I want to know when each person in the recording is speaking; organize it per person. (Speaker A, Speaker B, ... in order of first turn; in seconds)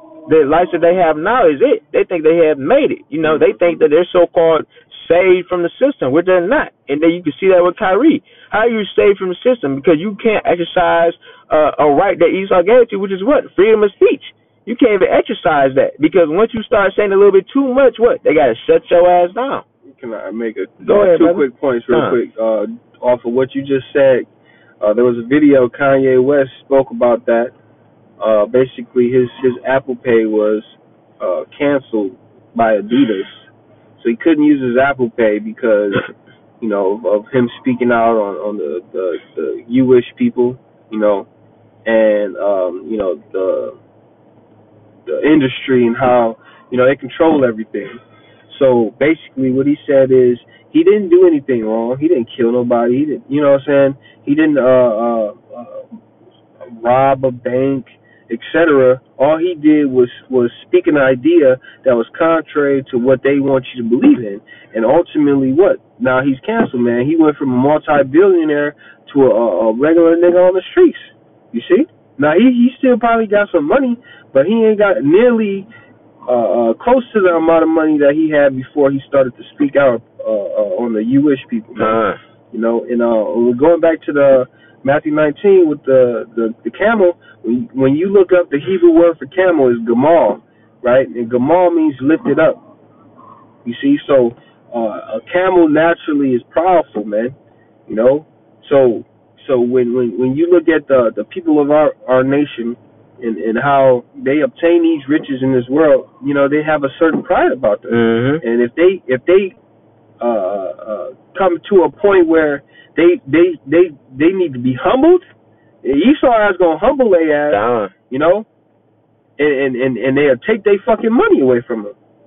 Speaker A: 0.3-19.6, 20.8-22.2, 81.8-82.2, 107.9-108.4, 117.5-117.9
Speaker B: 3.2-3.6, 19.9-24.3, 24.8-27.5, 28.2-41.3, 41.9-43.8, 45.0-56.0, 56.6-75.7, 76.3-82.0, 82.5-92.6, 93.6-97.3, 97.9-109.6, 110.2-115.2, 115.8-118.5, 119.4-121.9